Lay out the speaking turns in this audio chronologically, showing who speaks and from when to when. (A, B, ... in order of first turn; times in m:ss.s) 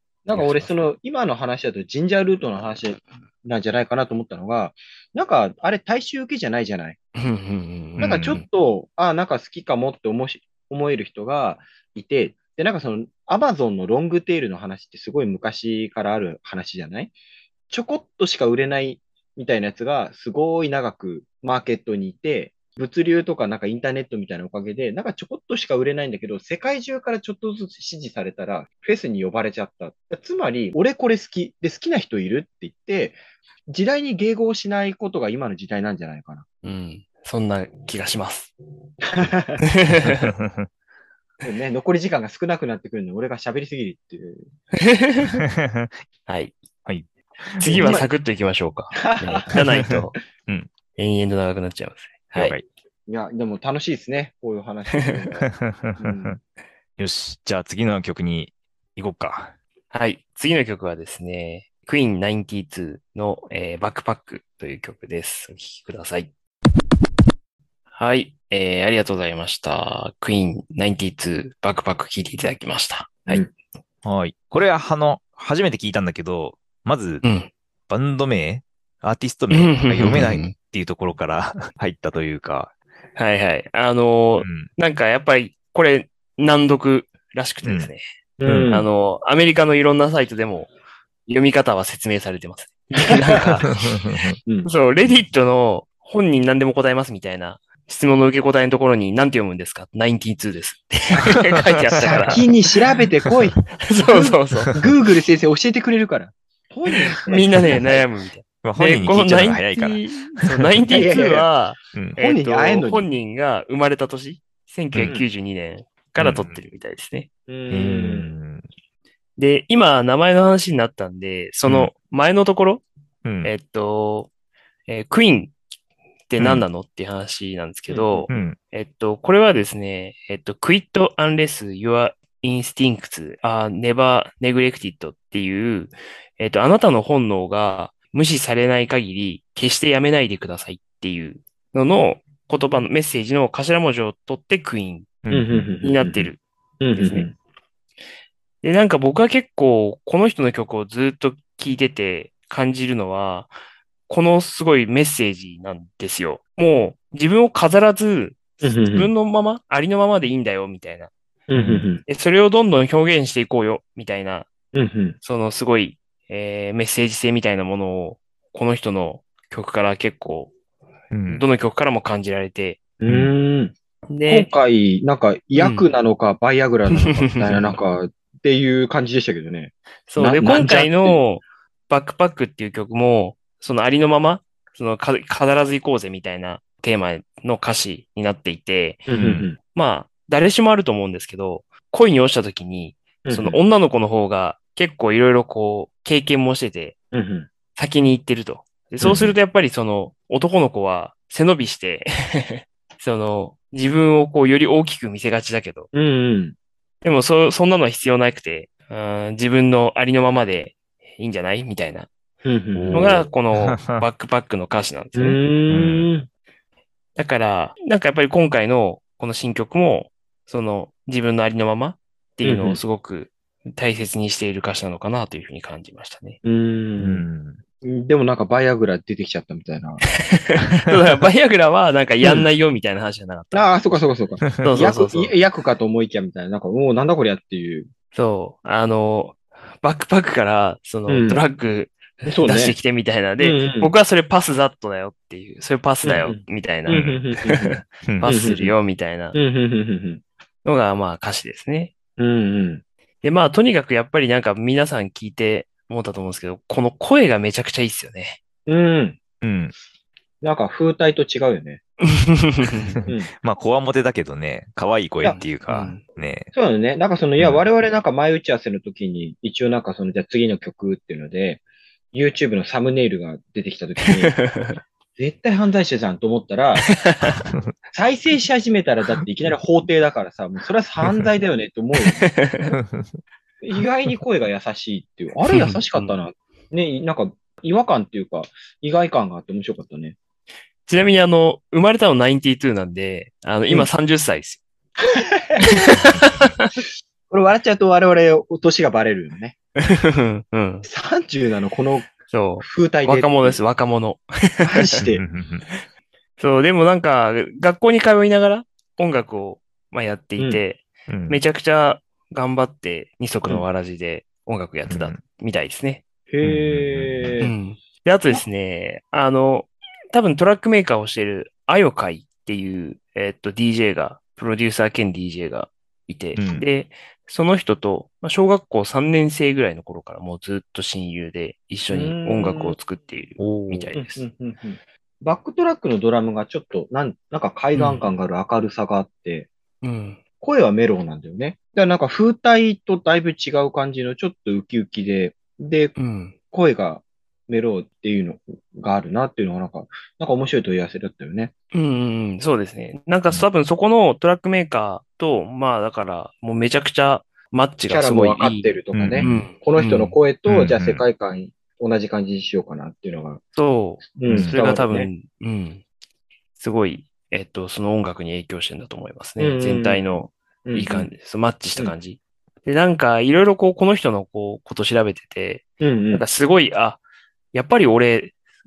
0:00.3-0:07.0 A
0:00.3-0:00.7 B
0:07.2-0:08.4 B
0:08.0-0:08.4 C
0:08.0-0:17.1 A
0:17.7-0:36.5 A
0:36.6-0:38.5 B
0:39.0-0:39.6 A
0:39.6-0:40.3 B
0:40.0-0:40.7 C
0:41.4-0:44.4 A
0:44.8-0:45.4 B
0:45.4-0:45.9 C
0:46.3-0:46.6 B
0:46.8-0:48.0 C
0:47.6-0:50.2 B
0:47.7-0:48.1 A
0:48.9-0:50.0 A
0:49.9-0:50.7 C
0:51.0-0:52.6 B
0:52.4-0:52.6 C
0:53.1-0:56.4 A
0:55.4-0:56.4 C
0:57.0-0:59.5 C
0:59.9-1:06.3 B
1:07.9-1:13.4 B
1:14.0-1:17.2 C
1:17.2-1:17.5 B
1:17.9-1:22.7 C
1:19.5-1:20.6 B
1:23.2-1:28.0 B
1:24.4-1:24.7 C
1:27.6-1:27.9 C
1:28.4-1:28.9 A
1:28.5-1:28.8 C
1:28.7-1:30.7 B
1:31.3-1:33.7 B
1:33.7-1:34.4 C
1:34.6-1:42.5 B
1:41.9-1:42.4 C
1:42.0-1:43.6 A
1:43.8-1:44.8 B
1:44.8-1:48.0 A
1:47.2-1:57.3 B
1:48.6-1:51.0 C
1:50.9-1:51.5 A
1:52.2-1:53.1 A
1:54.9-1:55.2 C
1:55.0-1:55.3 A
1:56.2-1:56.6 C
1:57.5-1:58.3 A
1:57.7-1:58.6 C
1:59.4-2:02.8 B
2:01.6-2:01.9 C
2:03.2-2:03.5 C
2:03.4-2:04.3 B
2:04.9-2:05.6 B
2:06.3-2:25.2 B
2:06.4-2:06.6 C
2:07.9-2:08.3 A
2:08.3-2:08.6 C
2:25.2-2:25.7 C
2:25.3-2:27.3 A
2:25.8-2:26.4 B
2:27.0-2:27.3 B
2:28.6-2:33.5 B
2:34.1-2:41.1 B
2:38.6-2:39.1 A
2:41.5-2:42.0 A
2:41.6-2:41.9 C
2:42.0-2:44.5 B
2:44.7-2:45.2 A
2:45.2-2:50.5 B
2:51.1-2:51.4 C
2:51.3-2:52.8 B
2:53.0-2:53.7 A
2:54.1-2:54.5 B
2:54.3-3:01.2 A
2:55.6-2:55.8 B
2:57.0-2:57.7 B
3:00.1-3:09.1 B
3:09.1-3:09.6 A
3:09.2-3:09.5 C
3:09.6-3:17.0 B
3:13.3-3:13.6 A
3:17.1-3:17.5 A
3:17.8-3:25.9 B
3:19.0-3:19.3 C
3:25.9-3:26.6 A
3:27.0-3:32.1 B
3:32.4-3:33.3 A
3:32.8-3:34.0 C
3:32.8-3:35.4 B
3:35.2-3:36.3 A
3:35.7-3:36.1 C
3:37.2-3:46.4 B
3:42.4-3:42.8 A
3:46.4-3:47.2 A
3:47.0-3:47.6 C
3:47.8-3:50.0 A
3:50.2-3:53.8 B
3:52.2-3:52.5 A
3:53.5-3:57.9 A
3:54.6-3:55.4 B
3:58.1-4:09.4 B
4:01.1-4:01.4 A
4:02.3-4:02.8 A
4:03.4-4:03.9 A
4:06.0-4:08.8 A
4:06.9-4:07.2 C
4:08.1-4:08.3 C
4:09.3-4:10.2 A
4:10.6-4:11.9 B
4:12.2-4:12.8 A
4:13.2-4:18.4 B
4:18.7-4:19.2 A
4:19.4-4:19.7 C
4:20.4-4:21.8 A
4:22.0-4:23.0 B
4:22.8-4:26.5 C
4:23.1-4:23.3 A
4:25.4-4:26.0 B
4:26.5-4:34.4 A
4:27.4-4:27.6 C
4:34.0-4:34.8 B
4:35.2-4:36.9 A
4:36.8-4:37.5 B
4:37.9-4:42.3 A
4:42.0-4:42.8 B
4:42.8-4:43.2 C
4:43.6-4:50.2 A
4:45.5-4:46.2 B
4:50.9-4:54.6 B
4:55.0-4:56.0 A
4:55.6-4:56.7 B
4:56.1-4:56.4 C
4:57.3-4:59.6 A
4:59.8-5:00.9 B
5:00.8-5:03.6 A
5:02.2-5:05.0 B
5:04.6-5:05.2 A
5:05.0-5:05.6 C
5:06.4-5:16.0 B
5:11.1-5:11.4 C
5:14.9-5:15.2 C
5:16.3-5:17.5 A
5:16.4-5:17.3 C
5:17.4-5:34.2 B
5:26.4-5:26.7 C
5:31.9-5:32.8 A
5:33.4-5:33.9 C
5:34.0-5:39.5 A
5:37.8-5:38.0 B
5:39.8-5:40.2 B
5:40.4-5:46.0 A
5:46.0-5:46.3 B
5:46.5-5:51.5 A
5:51.7-6:00.2 B
5:57.9-6:03.4 A
5:58.9-5:59.4 C
6:00.5-6:01.0 C
6:03.6-6:05.8 B
6:04.2-6:05.1 A
6:04.3-6:04.6 C
6:06.6-6:17.0 B
6:09.4-6:10.1 A
6:10.7-6:11.1 A
6:15.8-6:16.2 A
6:17.5-6:18.3 B